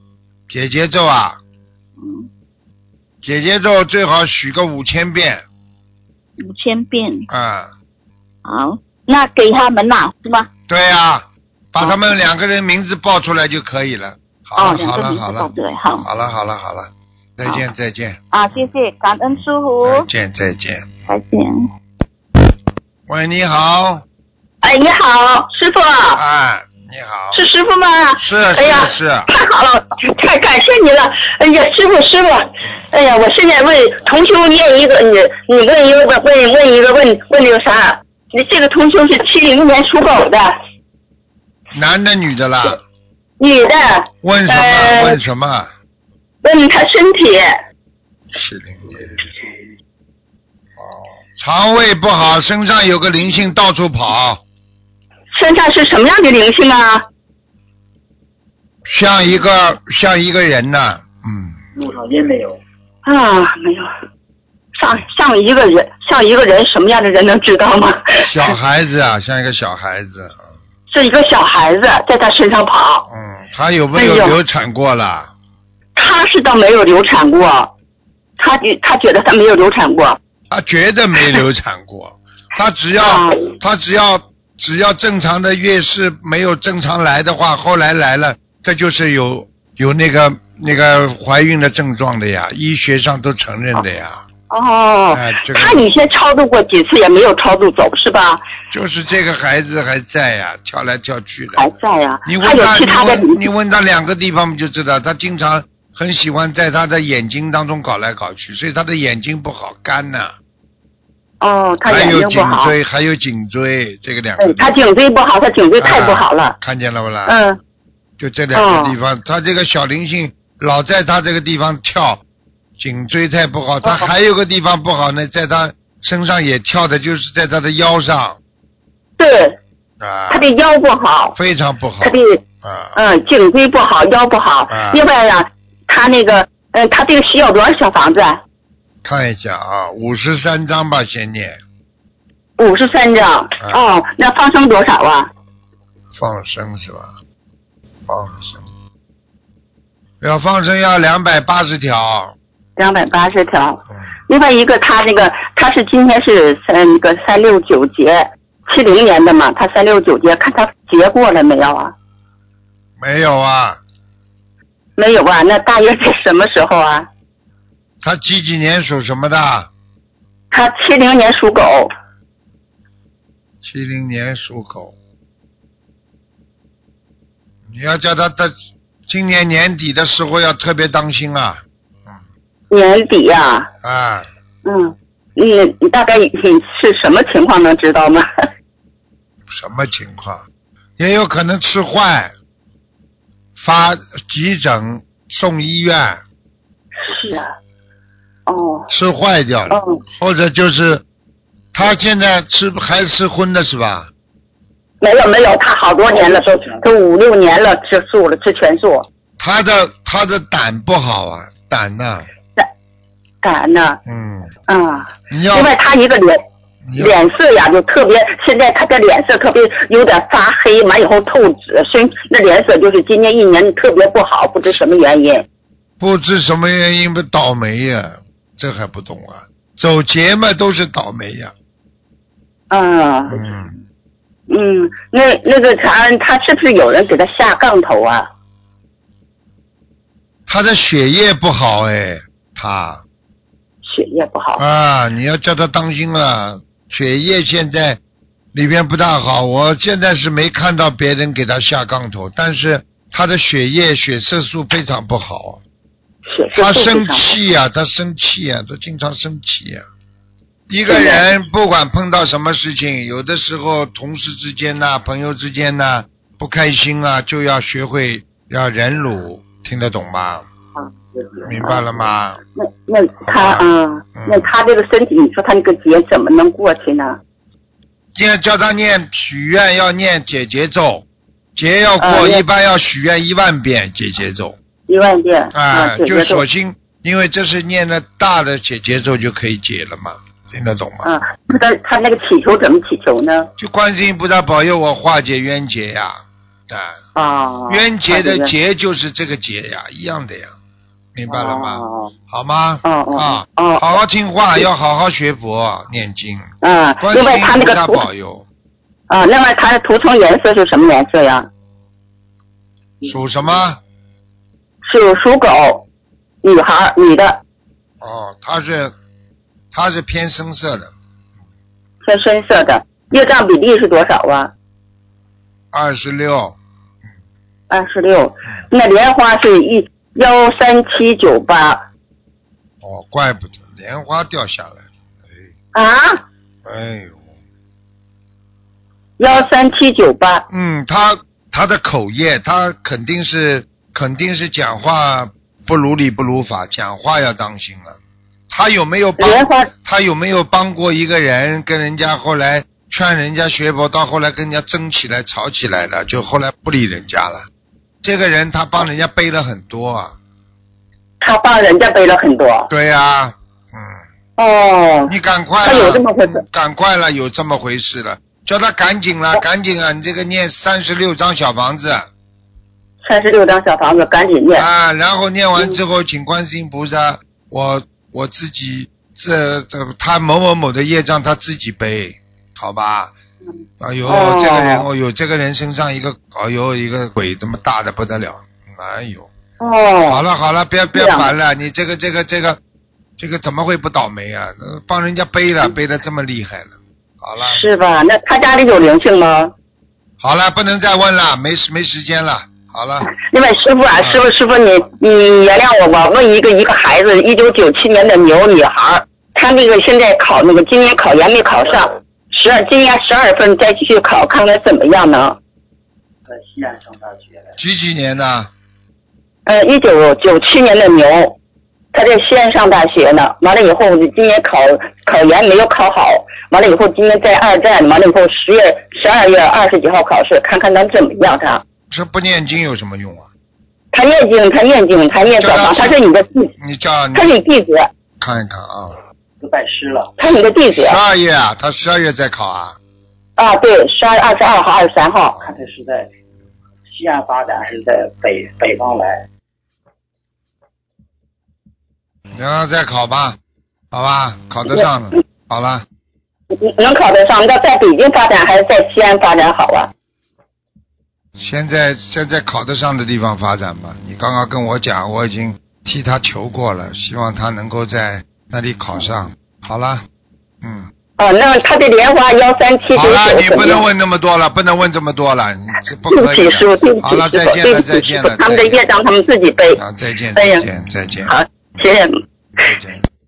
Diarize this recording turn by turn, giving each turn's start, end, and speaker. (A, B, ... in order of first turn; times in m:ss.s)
0:00.5-0:01.4 A
0:02.0-0:02.3 B
0:03.2-0:05.4 A
0:06.4-0:07.3 B
0:07.3-0:07.7 A
0:08.4-0:10.5 B
0:10.7-0:15.5 A
0:11.8-0:12.1 B
0:14.6-0:16.1 B
0:16.0-0:18.2 A
0:18.3-0:20.1 B
0:19.8-0:20.9 A
0:21.1-0:21.7 B
0:23.1-0:24.0 A
0:24.6-0:26.2 C
0:26.1-0:27.4 A
0:27.3-0:40.6 C
0:28.2-0:29.3 A
0:41.7-0:42.8 A
0:43.4-0:45.2 C
0:44.2-0:45.7 A
0:46.4-0:47.5 C
0:48.3-0:49.3 A
0:50.8-0:54.4 A
0:55.3-0:57.0 C
0:58.9-1:01.6 A
1:01.8-1:02.6 D
1:03.0-1:03.9 C
1:04.8-1:08.6 C
1:08.2-1:10.4 A
1:10.9-1:13.1 C
1:13.1-1:15.3 A
1:14.0-1:14.4 C
1:16.0-1:17.7 C
1:18.4-1:20.2 C
1:20.5-1:34.2 A
1:23.0-1:23.5 C
1:34.5-1:38.4 C
1:35.1-1:35.9 A
1:38.7-1:41.6 A
1:41.5-1:43.4 C
1:42.2-1:50.4 A
1:51.4-1:52.8 C
1:51.9-1:54.7 A
1:54.4-1:56.6 C
1:55.8-1:57.4 A
1:57.3-1:57.6 C
1:58.2-2:02.2 A
1:58.5-1:59.0 C
2:02.8-2:08.4 A
2:03.8-2:04.1 C
2:09.2-2:09.6 C
2:10.0-2:10.5 A
2:10.3-2:11.4 C
2:11.4-2:13.0 A
2:12.0-2:12.4 C
2:13.0-2:18.4 C
2:14.7-2:15.0 A
2:19.0-2:21.6 A
2:22.6-2:25.3 C
2:26.1-2:27.1 A
2:28.1-2:28.7 A
2:30.2-2:32.4 A
2:32.8-2:41.9 C
2:43.0-2:43.8 A
2:45.0-2:47.1 C
2:48.0-2:49.7 A
2:50.5-2:51.9 C
2:53.6-2:55.0 A
2:57.7-2:58.6 A
2:59.1-3:02.2 A
3:02.7-3:03.7 C
3:03.8-3:04.3 A
3:04.6-3:08.3 C
3:09.5-3:10.4 A
3:11.0-3:12.3 A
3:13.6-3:16.2 A
3:17.0-3:17.5 C
3:18.5-3:18.9 C
3:18.9-3:21.0 A
3:19.7-3:20.0 C
3:21.7-3:24.1 A
3:25.0-3:29.1 C
3:29.4-3:32.3 A
3:33.4-3:34.0 C
3:34.1-3:34.5 A
3:34.7-3:36.4 C
3:35.3-3:35.7 A
3:36.8-3:37.2 A
3:37.0-3:45.5 C
3:46.0-3:51.5 A
3:52.7-3:53.4 C
3:53.3-3:53.7 A
3:54.5-3:58.3 C
4:00.5-4:03.0 A
4:03.8-4:04.6 C
4:04.6-4:08.0 A
4:08.5-4:15.6 A
4:16.3-4:17.3 C
4:16.6-4:19.8 A
4:20.7-4:30.5 A
4:20.9-4:21.3 C
4:31.4-4:32.4 A
4:31.4-4:31.8 C
4:32.6-4:37.2 C
4:33.2-4:34.5 A
4:38.2-4:41.0 A
4:41.6-4:44.6 A
4:42.0-4:42.4 C
4:44.9-4:46.4 C
4:45.5-4:51.1 A
4:51.0-4:53.5 C
4:53.6-4:57.0 A
4:57.2-4:58.5 C
4:57.7-5:00.6 A
5:01.2-5:06.5 A
5:01.3-5:02.1 C
5:02.8-5:04.0 C
5:06.6-5:08.1 C
5:07.0-5:08.5 A
5:09.1-5:11.5 C
5:13.0-5:13.8 A
5:14.9-5:15.8 C
5:16.4-5:17.4 C
5:18.0-5:18.9 A
5:19.7-5:20.9 A
5:22.0-5:24.5 C
5:25.7-5:26.6 A
5:27.7-5:31.8 C
5:32.8-5:35.5 A
5:35.7-5:36.2 C
5:36.6-5:37.2 A
5:39.2-5:40.4 C
5:40.5-5:48.0 A
5:48.5-5:57.5 A
5:49.2-5:49.7 C
5:58.0-6:00.2 A
6:01.2-6:02.7 C
6:02.7-6:04.0 A
6:04.4-6:06.4 C
6:05.1-6:12.1 A
6:13.0-6:14.7 C
6:14.5-6:23.1 A
6:23.8-6:29.3 A
6:24.0-6:24.9 C
6:29.6-6:30.2 C
6:30.1-6:32.6 A
6:30.9-6:31.3 C
6:33.2-6:37.6 A
6:37.4-6:39.5 C
6:40.2-6:43.1 A
6:43.0-6:55.4 C
6:44.0-6:44.2 A
6:56.3-6:57.6 D
6:57.6-6:58.5 A
6:59.5-7:01.4 C
7:01.9-7:11.6 C
7:11.9-7:13.3 A
7:13.9-7:16.5 C
7:15.4-7:16.0 A
7:16.6-7:17.3 A
7:17.1-7:17.9 C
7:18.2-7:19.0 A
7:19.4-7:20.1 D
7:20.2-7:21.0 C
7:20.7-7:22.8 A
7:23.4-7:25.4 C
7:25.4-7:26.1 D
7:26.9-7:29.2 D
7:32.3-7:33.4 A
7:33.9-7:35.8 A
7:36.5-7:39.9 C
7:41.4-7:50.0 A
7:50.6-7:50.9 A
7:51.2-7:53.8 C
7:52.9-7:58.8 A
7:56.1-7:59.8 C
7:59.8-8:01.3 A
8:00.4-8:00.7 C
8:01.2-8:02.2 C
8:02.6-8:03.0 A